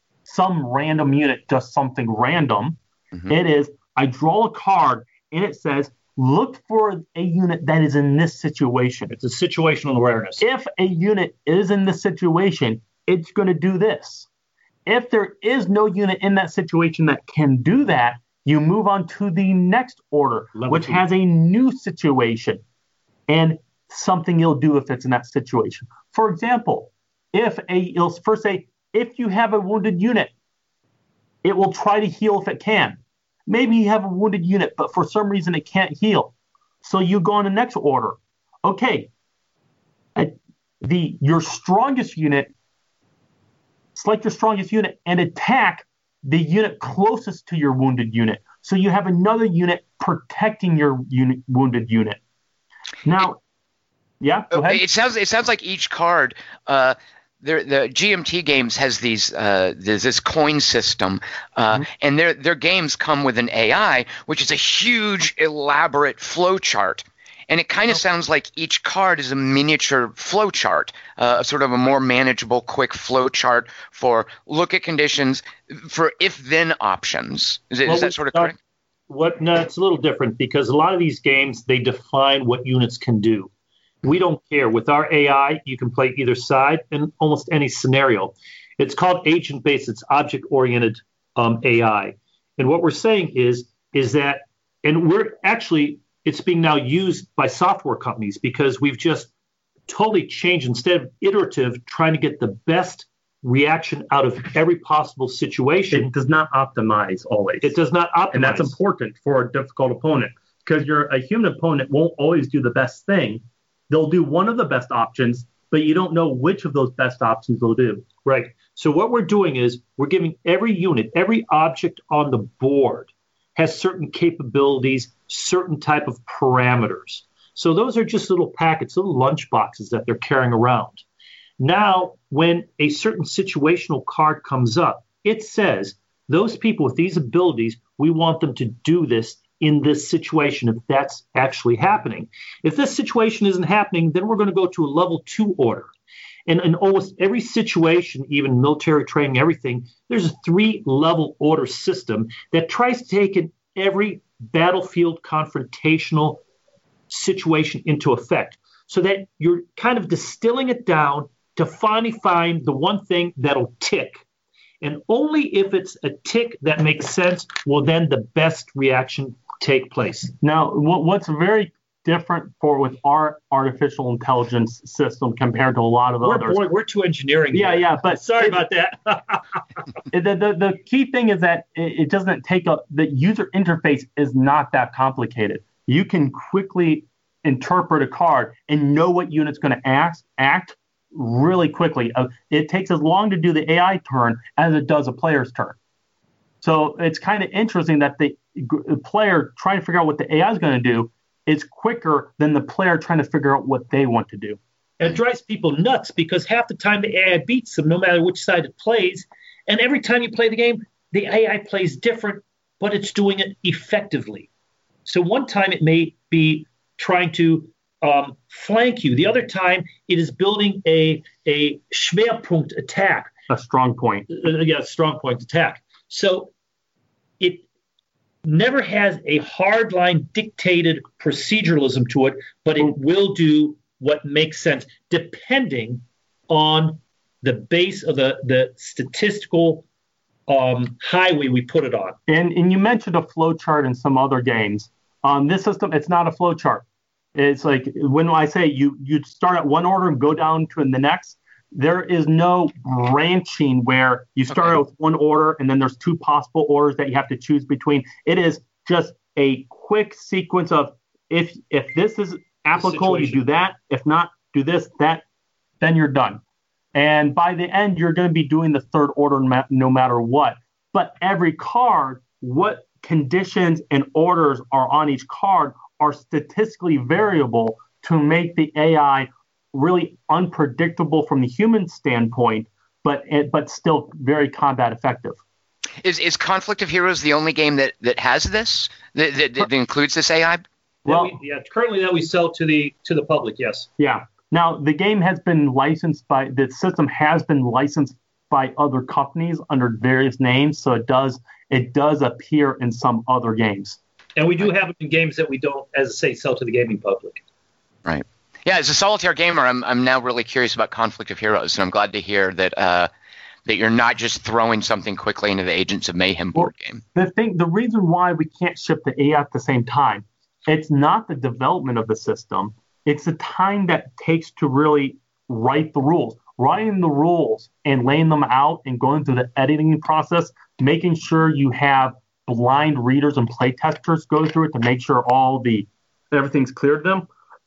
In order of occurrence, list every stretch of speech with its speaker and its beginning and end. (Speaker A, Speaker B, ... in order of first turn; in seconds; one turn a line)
Speaker A: 0.2-9.1
Speaker B: 9.1-10.4
Speaker A: 10.4-14.3
Speaker A: 14.8-22.6
Speaker B: 20.5-21.0
Speaker A: 23.3-30.3
Speaker A: 31.4-39.1
Speaker A: 40.1-42.5
Speaker A: 43.9-52.2
Speaker A: 53.0-53.4
Speaker A: 54.2-54.8
Speaker C: 54.5-78.5
Speaker B: 77.8-78.5
Speaker B: 79.1-83.5
Speaker B: 84.0-99.3
Speaker B: 99.9-106.1
Speaker A: 105.9-107.7
Speaker B: 107.6-108.8
Speaker A: 108.3-118.1
Speaker B: 118.2-131.0
Speaker B: 131.6-145.9
Speaker B: 146.5-156.4
Speaker B: 157.1-164.2
Speaker B: 164.8-170.3
Speaker A: 170.4-176.6
Speaker B: 176.2-179.6
Speaker A: 177.5-178.6
Speaker A: 180.1-195.8
Speaker A: 196.6-204.6
Speaker B: 205.0-214.5
Speaker B: 215.1-223.3
Speaker A: 223.5-224.3
Speaker B: 224.3-226.5
Speaker B: 227.4-227.6
Speaker B: 228.4-239.8
Speaker B: 240.5-242.2
Speaker A: 242.3-265.2
Speaker B: 262.7-263.4
Speaker A: 265.8-266.4
Speaker A: 266.9-285.4
Speaker C: 286.0-290.6
Speaker A: 291.1-291.3
Speaker B: 291.1-293.9
Speaker A: 294.0-304.0
Speaker B: 304.4-307.4
Speaker C: 308.0-313.1
Speaker C: 313.6-317.0
Speaker A: 316.5-337.3